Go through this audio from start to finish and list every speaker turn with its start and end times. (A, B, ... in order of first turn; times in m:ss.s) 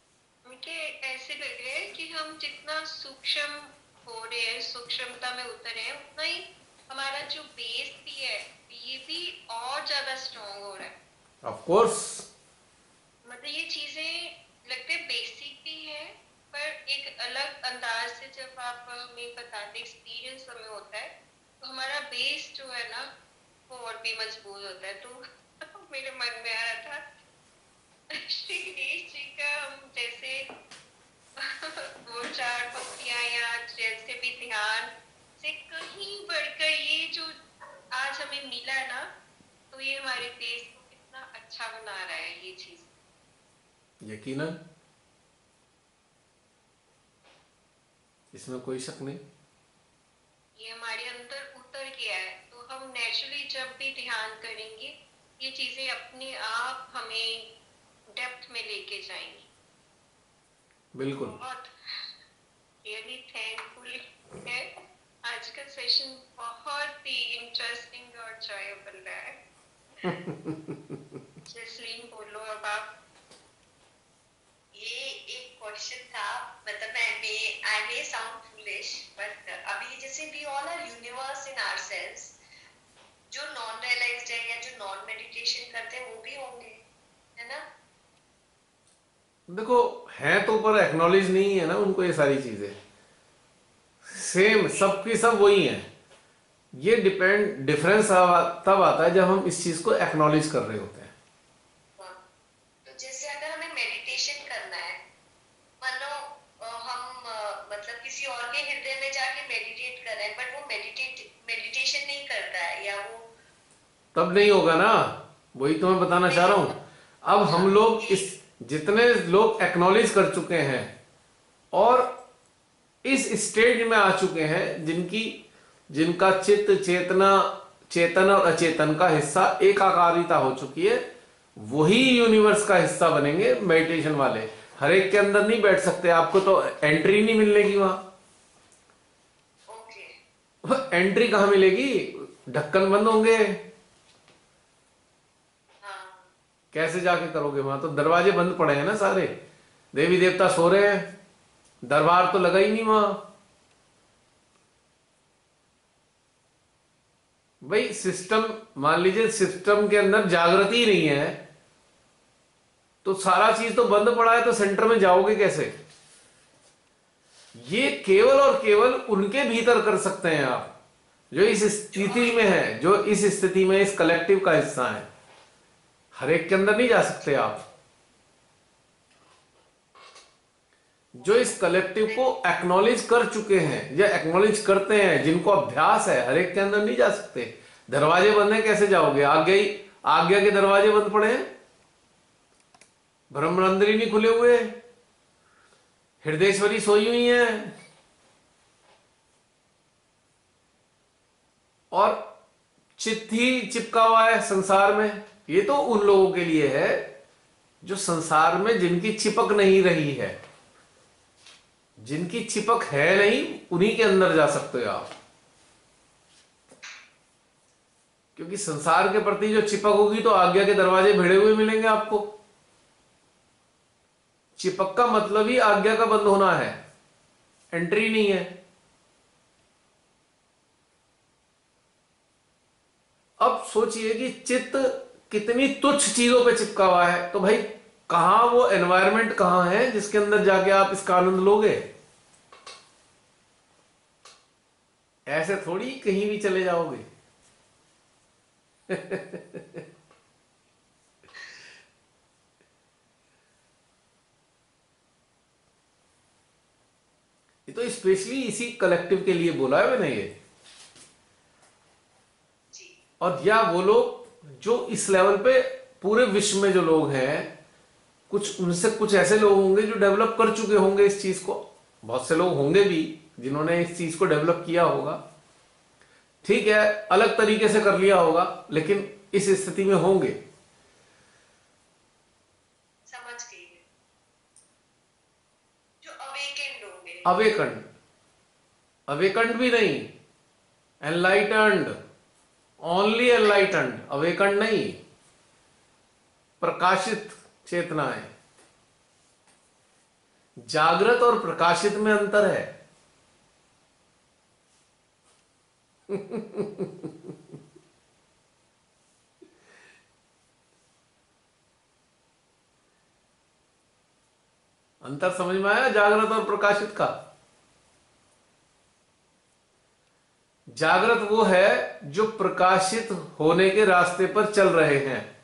0:00.4-0:10.9 A
0:11.4-0:12.2 B
0:13.2-0:21.1 A
0:21.6-0:23.1 A
0:23.7-0:27.0 A
0:28.1-0:30.4 A
0:31.4-0:37.4 A
0:37.9-0:39.1 A
0:39.7-0:42.9 A
0:44.0-0:44.6 B
0:48.3-0:49.2 B
0:50.6-0:57.4 A
0:58.2-0:59.5 A
1:00.9-1:01.3 B
1:01.2-1:02.0 A
1:02.8-1:04.7 A
1:05.2-1:09.4 A
1:10.0-1:11.0 B
1:11.5-1:12.9 A
1:14.7-1:22.4 C
1:23.3-1:26.8 C
1:27.4-1:27.6 C
1:29.5-1:32.8 B
1:34.0-1:35.9 B
1:36.7-1:41.1 B
1:42.8-1:45.0 C
1:45.8-1:53.2 C
1:54.1-2:00.9 B
1:56.2-1:56.8 C
1:57.4-1:58.3 C
2:01.7-2:02.1 B
2:03.0-2:05.4 B
2:05.9-2:11.0 B
2:11.6-2:18.0 B
2:19.7-2:20.1 C
2:20.6-2:23.6 B
2:25.8-2:26.3 C
2:26.7-2:29.3 B
2:29.9-2:31.1 B
2:31.8-2:33.2 B
2:37.6-2:41.4 B
2:43.0-2:45.7 B
2:47.5-2:50.7 B
2:51.3-2:55.1 B
2:51.9-2:52.6 C
2:56.2-2:57.6 B
3:01.1-3:11.5 B
3:01.2-3:02.3 C
3:13.3-3:14.7 B
3:16.2-3:17.7 B
3:21.9-3:22.2 B
3:23.0-3:27.0 B
3:27.8-3:30.4 B
3:32.0-3:35.1 B
3:38.4-3:42.3 B
3:44.6-3:46.8 B
3:47.7-3:48.5 B
3:53.4-4:01.9 B
4:05.3-4:07.1 B
4:08.9-4:09.8 B
4:17.7-4:20.3 B
4:22.7-4:23.0 C
4:23.2-4:27.5 B
4:28.3-4:35.2 B
4:36.4-4:40.4 B
4:43.1-4:43.8 C
4:46.0-4:47.2 C
4:47.2-4:47.8 B
4:49.1-4:50.1 B
4:51.0-4:52.0 B
4:52.8-4:55.0 B
4:56.6-4:58.3 B
5:00.6-5:02.7 B
5:06.1-5:07.1 B
5:15.0-5:17.1 B
5:20.7-5:25.3 B